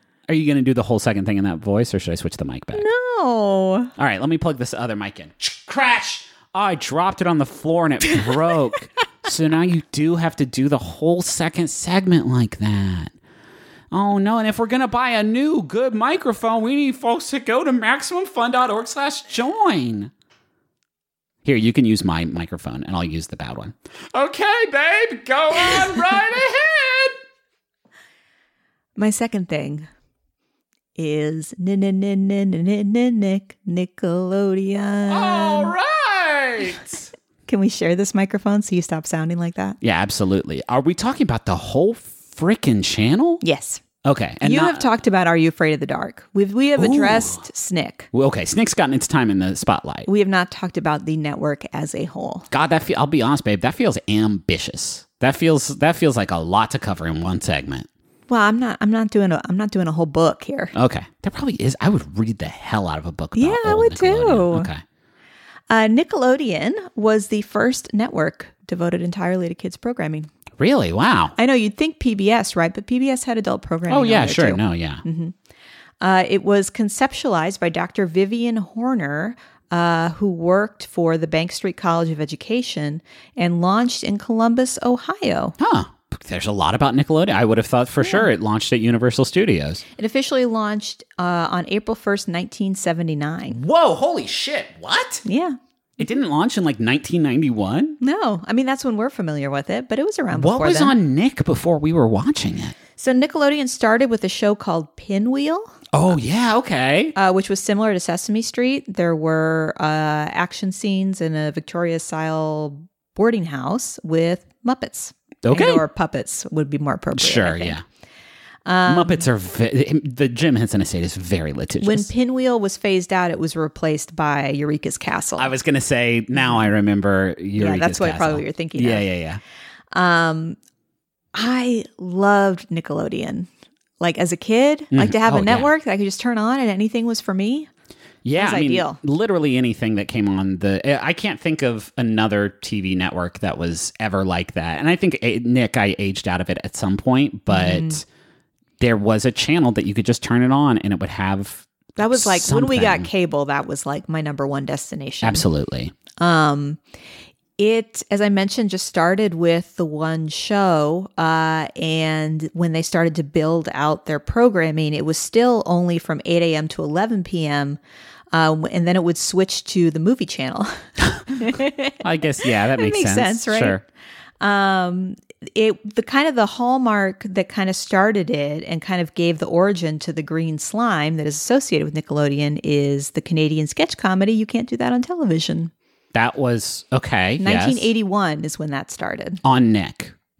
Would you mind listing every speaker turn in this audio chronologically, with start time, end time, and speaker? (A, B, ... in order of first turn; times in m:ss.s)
0:00.3-0:02.9 A
0:02.7-0:03.9 B
0:04.0-0:13.1 A
0:13.9-0:20.1 A
0:21.4-0:27.2 A
0:29.0-0:29.9 B
0:31.0-0:35.7 B
0:35.1-0:37.1 A
0:37.5-0:39.8 B
0:39.8-0:43.4 A
0:43.4-0:43.8 B
0:44.0-0:44.8 A
0:44.4-0:48.1 B
0:46.8-0:47.4 A
0:48.1-0:50.1 A
0:50.0-0:52.5 B
0:52.5-0:57.9 A
0:58.3-1:00.7 B
1:00.7-1:04.8 A
1:03.3-1:04.7 B
1:05.7-1:10.3 B
1:10.6-1:11.3 A
1:11.4-1:15.3 B
1:13.9-1:15.0 A
1:16.0-1:25.6 B
1:25.6-1:29.8 A
1:28.0-1:28.3 B
1:30.0-1:33.6 B
1:33.5-1:35.2 A
1:35.2-1:35.6 B
1:36.0-1:38.0 A
1:38.0-1:40.9 B
1:40.3-1:42.8 A
1:43.0-1:45.8 B
1:45.9-1:47.1 A
1:47.2-1:57.8 B
1:55.4-1:55.8 A
1:57.1-1:57.8 A
1:58.6-1:59.3 B
1:58.8-2:02.1 A
2:01.8-2:05.5 B
2:05.4-2:09.4 A
2:06.3-2:06.6 B
2:07.5-2:09.1 B
2:09.9-2:10.6 B
2:11.3-2:17.7 B
2:14.9-2:15.7 A
2:18.2-2:28.0 A
2:18.3-2:19.0 B
2:27.5-2:28.0 B
2:28.8-2:33.1 A
2:32.0-2:35.4 B
2:35.2-2:35.9 A
2:36.2-2:36.8 B
2:37.6-2:47.8 B
2:48.3-2:52.0 B
2:52.0-2:53.8 A
2:52.7-2:53.8 B
2:54.4-3:05.7 B
3:06.1-3:07.9 A
3:07.4-3:09.4 B
3:09.4-3:10.1 A